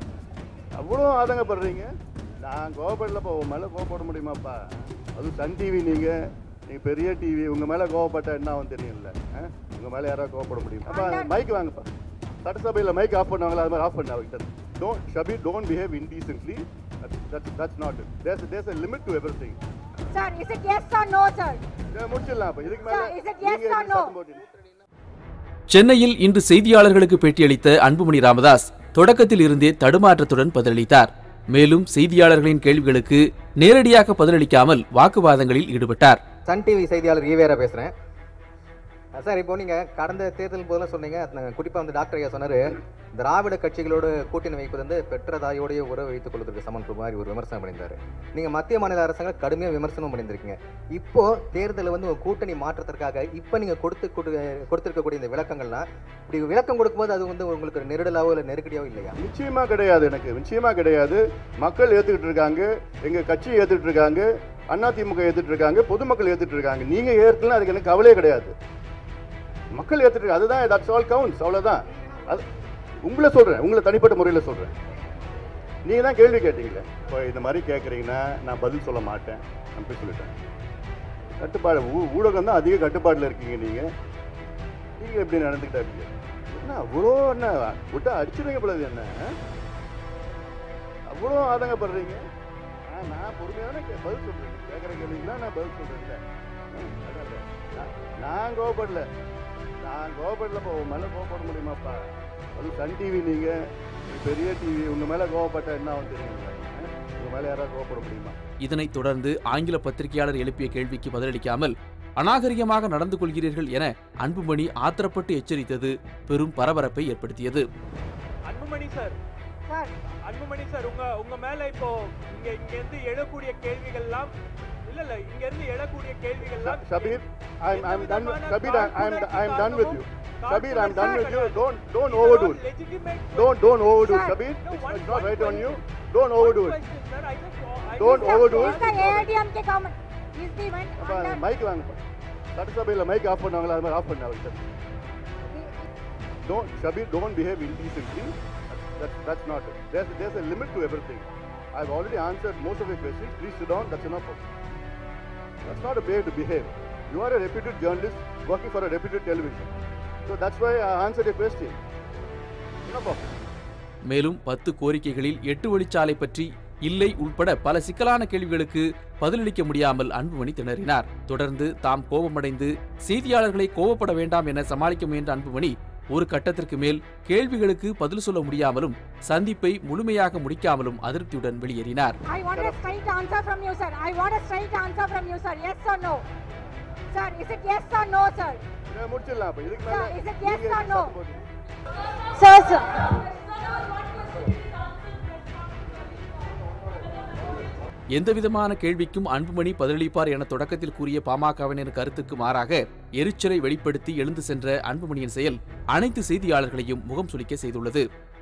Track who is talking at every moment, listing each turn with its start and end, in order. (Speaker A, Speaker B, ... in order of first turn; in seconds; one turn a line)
Speaker A: 0.8-1.9
Speaker A: 2.4-4.6
Speaker A: 5.1-6.2
Speaker A: 6.7-11.9
Speaker B: 10.9-11.3
Speaker A: 12.4-19.6
Speaker B: 20.1-21.6
Speaker A: 21.9-24.6
Speaker B: 22.8-24.1
Speaker C: 25.7-36.2
Speaker D: 36.5-37.9
Speaker D: 39.1-59.2
Speaker A: 59.2-68.5
Speaker A: 69.7-72.4
Speaker A: 73.0-74.7
Speaker A: 75.8-80.3
Speaker A: 81.4-83.9
Speaker A: 85.0-89.1
Speaker A: 91.1-92.2
Speaker A: 92.9-96.2
Speaker A: 96.7-99.1
Speaker A: 99.8-102.0
Speaker A: 102.6-103.6
Speaker A: 104.1-108.3
Speaker C: 108.6-117.6
Speaker E: 118.5-119.2
Speaker E: 120.1-124.3
Speaker E: 124.8-133.9
Speaker A: 126.4-132.6
Speaker A: 133.3-136.8
Speaker B: 134.1-134.4
Speaker E: 134.5-135.8
Speaker E: 136.4-139.2
Speaker A: 137.9-139.2
Speaker B: 138.1-141.4
Speaker A: 141.0-142.0
Speaker A: 142.6-144.7
Speaker B: 145.5-145.8
Speaker A: 146.4-154.5
Speaker A: 155.7-159.7
Speaker A: 160.2-161.8
Speaker A: 162.8-163.3
Speaker C: 164.1-182.2
Speaker B: 182.3-186.2
Speaker A: 182.5-183.0
Speaker B: 187.1-188.6
Speaker A: 188.9-191.4
Speaker B: 189.8-191.1
Speaker B: 192.2-195.0
Speaker C: 198.1-208.0